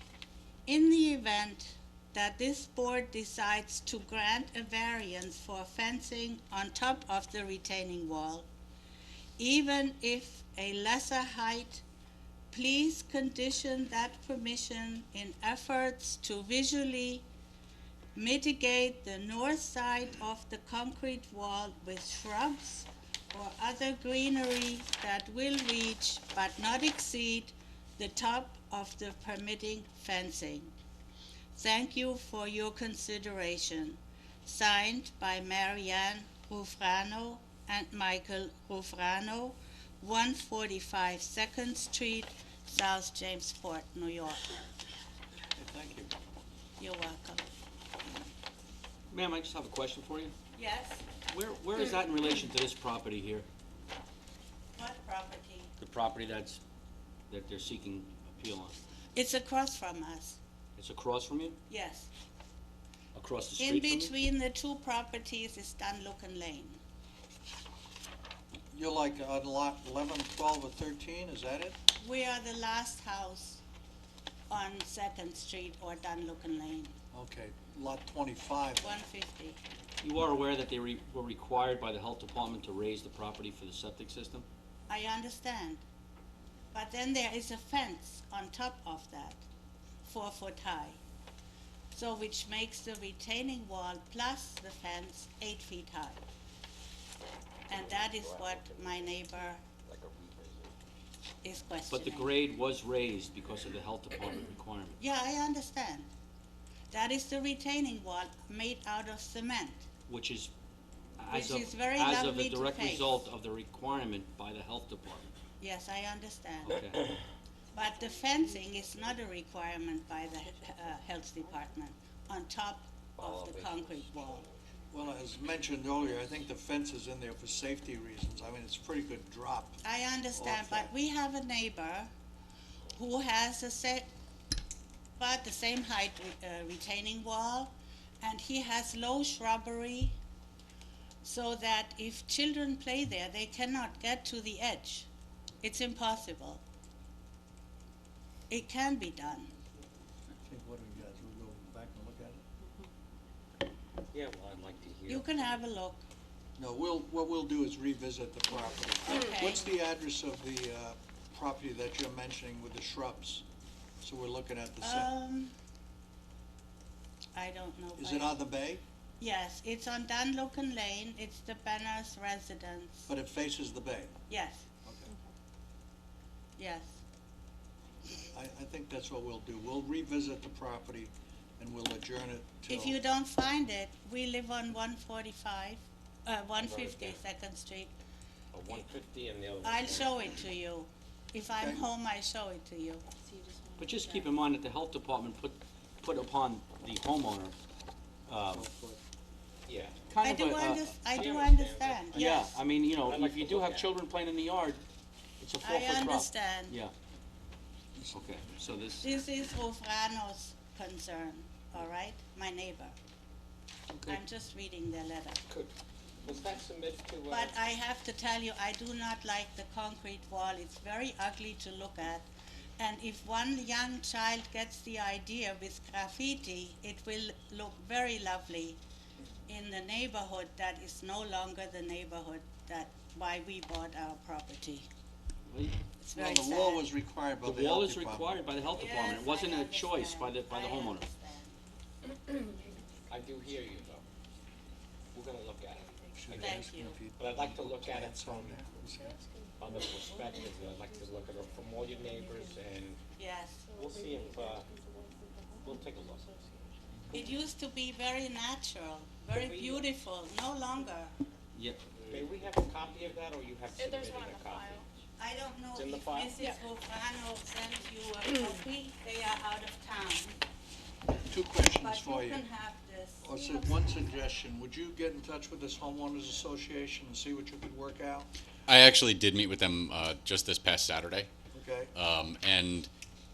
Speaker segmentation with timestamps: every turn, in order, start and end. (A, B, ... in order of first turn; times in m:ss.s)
0:00.6-0:08.5 A
0:09.4-0:11.8 A
0:12.5-0:17.2 A
0:18.1-0:30.7 A
0:31.5-0:44.6 A
0:45.6-0:46.1 B
0:46.8-0:47.5 A
0:49.1-0:50.3 C
0:50.5-0:51.1 A
0:51.3-0:53.4 C
0:54.7-0:55.7 A
0:55.8-0:56.6 C
0:57.3-0:58.8 C
0:59.1-1:00.4 A
1:00.8-1:01.6 C
1:01.7-1:02.1 A
1:03.1-1:04.1 C
1:03.6-1:06.8 A
1:08.7-1:11.8 B
1:12.0-1:13.6 A
1:14.5-1:16.9 A
1:17.1-1:19.0 B
1:18.8-1:19.6 A
1:20.0-1:24.4 C
1:24.9-1:25.8 A
1:26.7-1:29.4 A
1:30.0-1:31.0 A
1:31.9-1:36.2 A
1:37.7-1:39.6 A
1:37.7-1:40.8 D
1:41.4-1:42.3 A
1:41.9-1:45.0 C
1:45.0-1:46.1 A
1:46.9-1:49.8 A
1:50.1-1:50.5 C
1:51.2-1:55.3 C
1:51.3-1:53.2 A
1:55.6-1:56.8 A
1:56.6-1:57.0 C
1:57.7-2:04.5 A
1:57.8-1:59.0 E
2:00.2-2:01.6 E
2:03.2-2:04.6 D
2:04.9-2:09.8 B
2:09.8-2:12.1 A
2:10.3-2:10.9 B
2:12.9-2:14.1 A
2:15.2-2:20.2 A
2:21.2-2:25.1 A
2:25.6-2:26.6 A
2:28.5-2:29.5 A
2:30.4-2:32.4 B
2:34.1-2:35.3 D
2:35.1-2:36.0 A
2:36.6-2:43.4 B
2:39.0-2:39.6 A
2:44.0-2:45.1 B
2:44.8-2:45.5 A
2:47.3-2:48.4 A
2:48.0-2:48.8 B
2:49.2-2:53.1 A
2:53.1-2:54.1 B
2:54.3-2:54.6 A
2:54.8-2:55.1 B
2:56.6-2:57.0 A
2:58.3-3:03.0 B
3:02.7-3:07.9 A
3:06.6-3:07.2 D
3:08.5-3:10.1 D
3:09.6-3:13.0 A
3:11.5-3:11.8 B
3:13.2-3:14.3 E
3:13.8-3:17.6 C
3:18.3-3:18.7 C
3:18.4-3:19.0 B
3:19.6-3:20.0 D
3:20.1-3:20.9 C
3:20.2-3:22.6 A
3:21.1-3:22.1 D
3:22.1-3:24.8 C
3:23.0-3:23.9 D
3:25.4-3:26.9 C
3:25.6-3:26.8 A
3:28.1-3:29.1 C
3:29.0-3:32.9 A
3:33.9-3:34.2 C
3:34.0-3:35.4 A
3:35.5-3:37.7 D
3:37.3-3:42.2 A
3:42.8-3:48.8 A
3:49.5-3:54.9 A
3:55.5-3:55.8 C
3:56.0-3:56.9 A
3:56.1-3:58.4 B
3:57.4-4:01.1 C
3:58.7-4:01.6 A
4:02.3-4:03.2 E
4:03.1-4:04.0 D
4:05.1-4:05.9 D
4:05.7-4:06.7 E
4:06.2-4:09.2 B
4:06.4-4:07.0 A
4:07.2-4:08.7 D
4:08.8-4:12.7 E
4:09.6-4:13.0 D
4:13.2-4:13.6 A
4:13.6-4:17.5 E
4:13.7-4:14.7 D
4:15.6-4:16.3 D
4:17.1-4:21.2 A
4:19.3-4:19.9 D
4:21.5-4:21.8 C
4:22.1-4:24.8 D
4:23.7-4:24.9 E
4:25.2-4:30.4 A
4:25.7-4:26.4 D
4:31.3-4:32.4 B
4:31.8-4:34.0 A
4:33.2-4:38.3 B
4:38.7-4:41.3 F
4:41.5-4:41.9 B
4:41.9-4:42.9 F